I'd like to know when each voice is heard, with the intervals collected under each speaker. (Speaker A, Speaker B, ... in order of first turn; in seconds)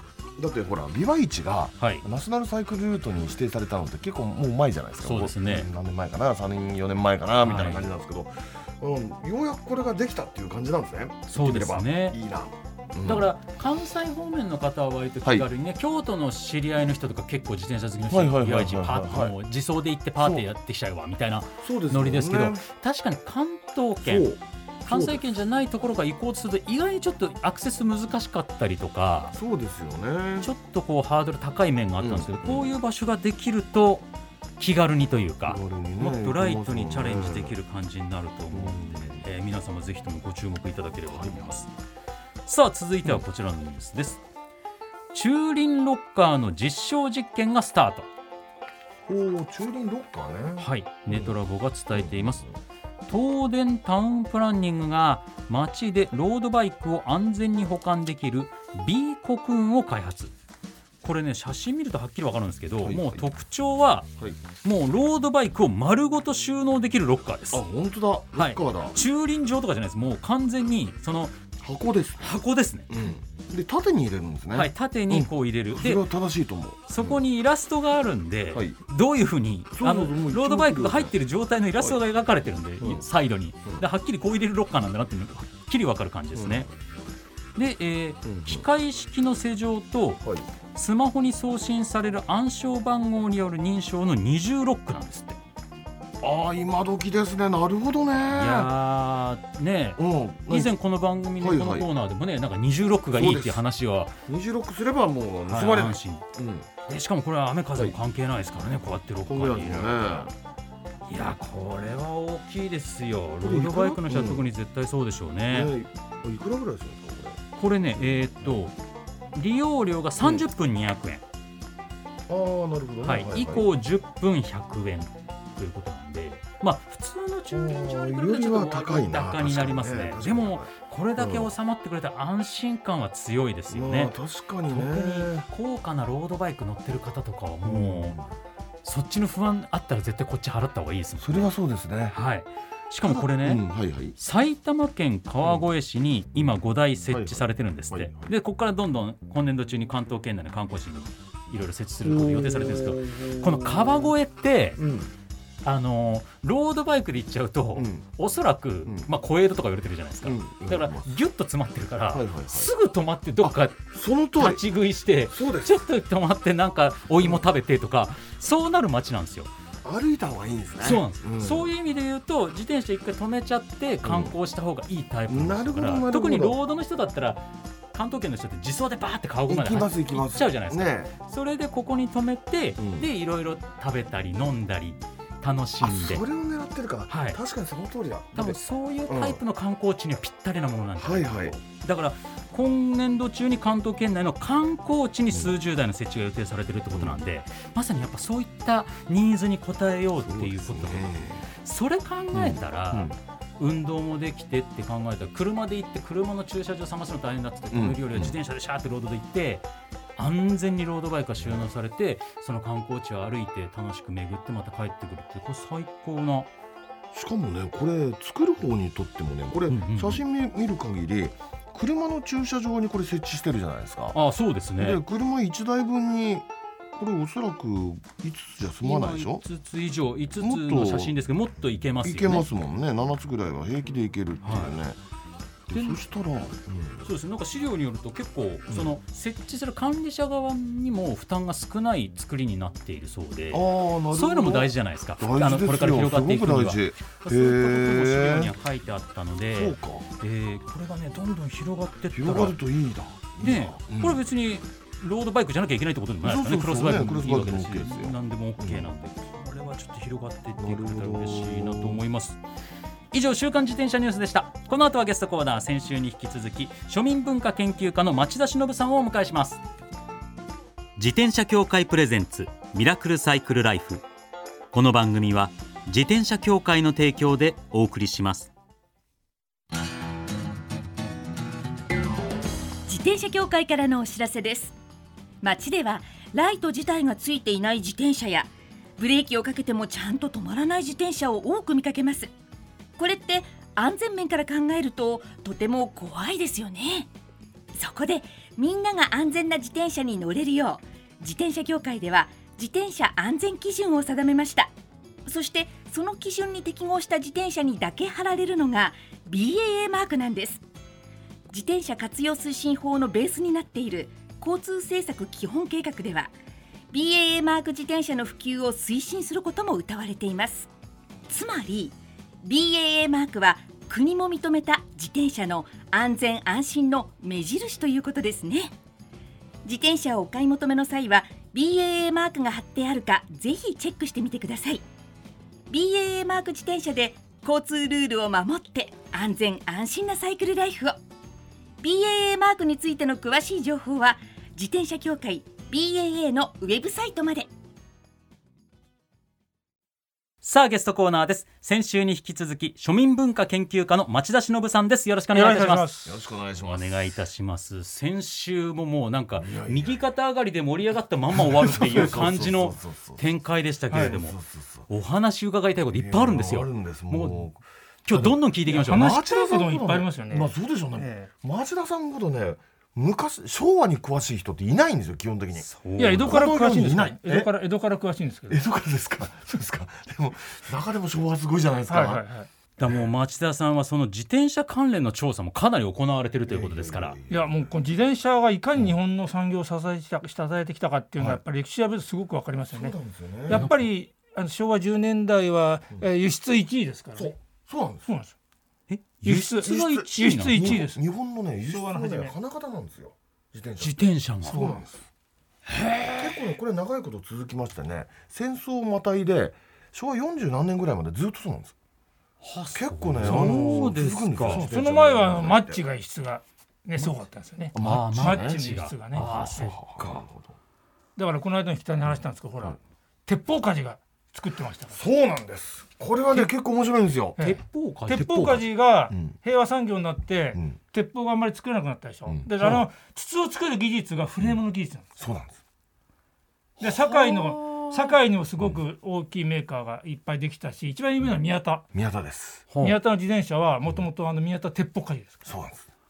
Speaker A: 0.4-13.3, 18.1-19.3, 20.2-20.5, 21.6-22.6, 24.0-25.2, 29.3-30.5, 32.0-32.7, 35.5-37.5, 38.5-39.2, 41.1-41.5, 49.1-51.3, 51.9-52.6, 62.8-63.3, 67.5-69.0, 71.6-72.3, 72.9-77.2, 79.7-81.1, 86.3-86.7, 88.2-88.6, 96.2-98.7, 100.0-100.7, 101.4-101.9, 103.1-103.6, 104.3-106.7, 109.3-110.3, 113.4-114.5, 115.5-117.4, 118.0-118.6, 120.2-120.5, 122.3-123.7, 127.5-131.5, 133.7-135.4, 137.6-138.2, 141.2-142.1, 143.0-144.2, 147.1-148.3, 152.0-154.2, 154.8-155.1, 157.8-158.1, 158.8-159.1, 160.2-161.1, 162.1-162.7, 163.4-164.6, 165.3-165.7, 169.8-171.7, 174.0-174.3, 175.3-176.6, 179.5-181.1, 182.8-183.1, 185.8-189.4, 191.0-191.6, 196.9-197.2, 200.2-201.4, 202.3-203.2, 207.7-208.4, 211.4-211.6, 217.1-224.2, 224.8-229.4, 230.4-231.1, 232.0-235.0, 235.7-237.1, 243.5-248.5, 249.5-250.1, 252.1-254.2, 256.2-258.9, 260.6-262.0, 356.0-357.0, 359.4-360.0, 361.3-363.2, 363.9-364.9, 365.9-377.5, 378.5-382.2, 386.4-387.7, 392.7-393.7, 397.1-398.1, 399.6-405.0, 406.1-411.7, 412.7-415.8, 417.7-418.6, 419.1-420.5, 422.1-422.8, 424.9-427.4, 428.2-429.3, 432.3-432.9, 435.2-435.6, 441.9-442.6, 445.4-445.9
Speaker B: 1.8-2.0, 5.0-5.7, 7.4-7.9, 11.3-12.2, 13.0-24.3, 24.9-29.4, 30.4-41.7, 42.5-44.2, 45.1-48.1, 50.6-52.4, 53.1-60.3, 61.0-64.1, 64.6-67.6, 68.3-71.4, 72.2-72.9, 74.5-76.1, 76.9-86.7, 87.5-95.4, 98.3-104.2, 105.5-106.2, 106.8-110.3, 111.1-115.7, 117.5-118.7, 119.3-121.2, 123.0-134.1, 134.7-138.2, 138.8-141.5, 142.1-154.8, 155.6-163.8, 164.3-169.5, 170.8-186.2, 187.1-187.4, 188.3-216.5, 219.7-220.2, 224.1-225.0, 228.8-232.4, 234.4-234.8, 235.7-236.0, 237.0-252.6, 253.4-262.4, 263.1-269.6, 270.9-274.0, 274.7-278.5, 350.4-356.0, 356.6-364.4, 364.9-369.1, 375.6-376.3, 382.8-387.2, 393.5-393.8, 398.9-400.8, 403.8-404.7, 405.7-406.4, 412.4-414.7, 417.8-420.2, 427.4-428.6, 436.8-438.1, 442.7-443.0
Speaker C: 282.9-284.8, 285.4-292.3, 293.0-297.1, 297.7-304.7, 305.2-310.6, 311.5-316.3, 316.9-320.7, 321.3-328.7, 329.6-334.8, 335.7-341.0, 341.8-347.5
Speaker D: 355.3-356.1, 368.7-371.3, 376.0-378.6, 381.9-382.5, 387.3-397.3, 398.1-398.3, 399.2-401.0, 401.6-402.4, 404.4-404.9, 413.2-413.8, 414.4-419.7, 421.1-425.0, 427.4-435.1, 436.8-441.9, 442.8-445.4